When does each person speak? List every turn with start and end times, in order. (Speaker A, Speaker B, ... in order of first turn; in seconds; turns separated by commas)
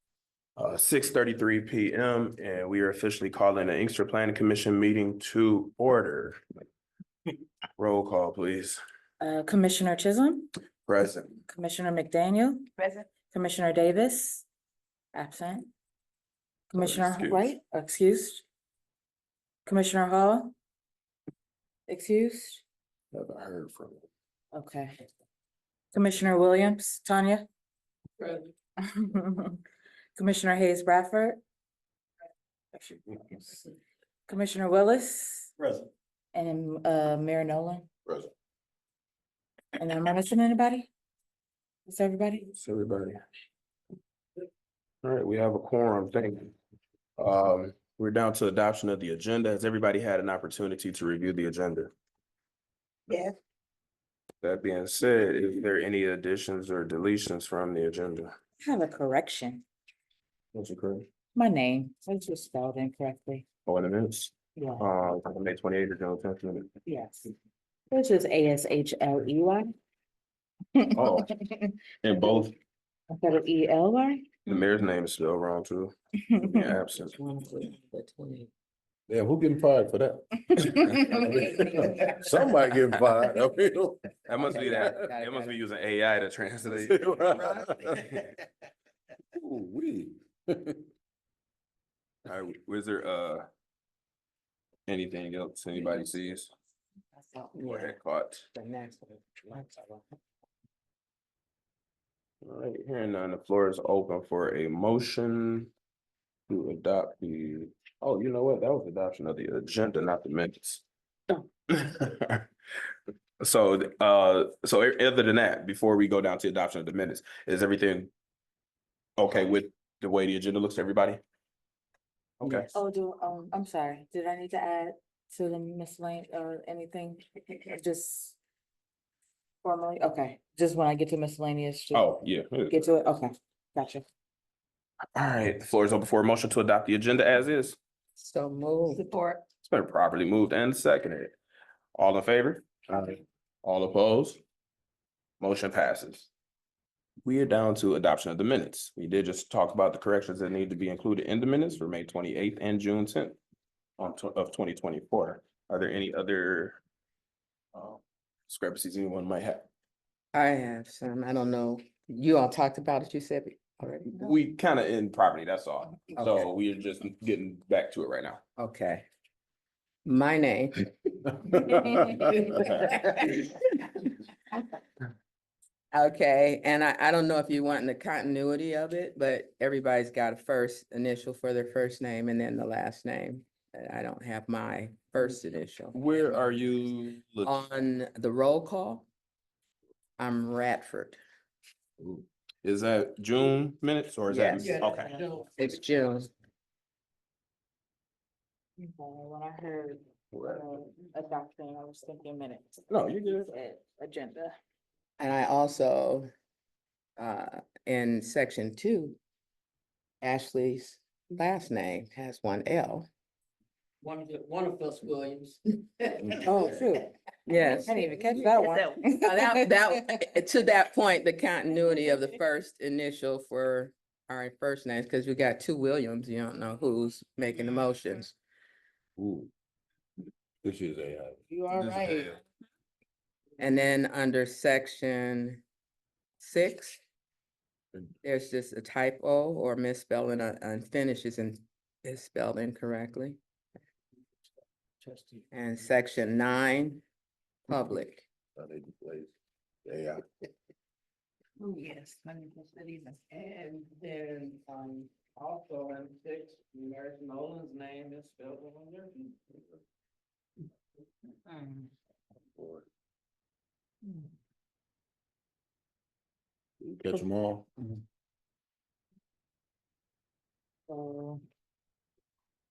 Speaker A: 0.6-6.4, Speaker A: 7.8-8.8, Speaker B: 9.2-10.5, Speaker A: 10.8-11.4, Speaker B: 11.5-12.7, Speaker B: 13.3-14.4, Speaker B: 15.1-15.7, Speaker B: 16.7-18.4, Speaker A: 16.8-17.4, Speaker B: 19.6-20.5, Speaker B: 21.9-22.6, Speaker C: 23.1-24.0, Speaker B: 24.5-24.9, Speaker B: 25.9-27.4, Speaker B: 28.9-29.6, Speaker B: 30.1-31.4, Speaker B: 32.7-33.6, Speaker B: 34.3-35.5, Speaker B: 36.3-37.9, Speaker B: 39.8-40.9, Speaker B: 41.9-42.5, Speaker A: 42.5-43.2, Speaker A: 45.0-46.5, Speaker A: 47.2-51.9, Speaker A: 54.4-58.3, Speaker B: 58.6-59.6, Speaker A: 60.5-61.1, Speaker B: 61.3-63.4, Speaker A: 63.6-66.7, Speaker B: 64.5-64.8, Speaker B: 66.8-67.3, Speaker B: 67.9-69.7, Speaker B: 70.7-71.7, Speaker A: 70.9-71.3, Speaker A: 72.0-72.5, Speaker B: 73.1-74.3, Speaker A: 74.5-77.1, Speaker B: 76.2-76.6, Speaker D: 76.9-78.5, Speaker C: 79.1-84.1, Speaker B: 80.5-82.3, Speaker A: 84.2-87.1, Speaker D: 84.4-85.6, Speaker C: 84.7-85.1, Speaker C: 86.8-88.1, Speaker D: 87.2-87.8, Speaker C: 89.4-90.8, Speaker A: 92.2-93.5, Speaker A: 94.9-96.5, Speaker B: 97.2-97.4, Speaker D: 97.5-98.0, Speaker A: 97.6-98.5, Speaker D: 98.5-100.0, Speaker A: 102.4-105.7, Speaker A: 106.5-112.5, Speaker A: 113.4-118.1, Speaker A: 119.2-121.2, Speaker A: 122.4-122.7, Speaker B: 122.4-128.4, Speaker B: 129.6-132.1, Speaker A: 131.9-132.8, Speaker B: 132.7-134.0, Speaker A: 135.2-137.8, Speaker D: 138.2-139.1, Speaker E: 138.9-139.2, Speaker A: 139.6-141.4, Speaker A: 141.9-142.7, Speaker C: 142.9-143.2, Speaker A: 143.6-144.4, Speaker A: 145.4-146.3, Speaker A: 147.2-153.4, Speaker A: 154.0-156.8, Speaker A: 157.7-159.7, Speaker D: 160.3-164.4, Speaker A: 164.2-168.4, Speaker D: 166.2-166.5, Speaker D: 168.6-169.1, Speaker D: 170.0-174.1, Speaker C: 171.5-172.5, Speaker A: 172.6-172.9, Speaker D: 175.9-186.0, Speaker A: 185.9-187.7, Speaker D: 187.4-189.1, Speaker D: 190.2-191.2, Speaker A: 192.6-195.2, Speaker D: 194.3-194.7, Speaker E: 194.6-195.7, Speaker D: 195.4-196.3, Speaker B: 198.8-204.5, Speaker A: 200.3-200.6, Speaker A: 202.9-203.5, Speaker D: 205.2-206.3, Speaker D: 207.2-209.2, Speaker D: 210.2-213.1, Speaker E: 214.0-215.6, Speaker B: 216.4-217.1, Speaker D: 217.5-218.0, Speaker B: 217.7-219.6, Speaker E: 218.4-219.0, Speaker D: 219.1-228.3, Speaker C: 229.2-229.5, Speaker C: 230.6-232.3, Speaker B: 231.5-232.3, Speaker D: 233.6-235.6, Speaker D: 236.4-237.0, Speaker D: 238.2-243.4, Speaker E: 245.1-245.4, Speaker D: 245.5-247.0, Speaker D: 247.7-248.2, Speaker C: 248.6-249.3, Speaker C: 249.8-250.2, Speaker B: 251.6-253.1, Speaker E: 252.5-259.3, Speaker C: 262.6-262.8, Speaker C: 266.8-267.9, Speaker B: 270.9-271.4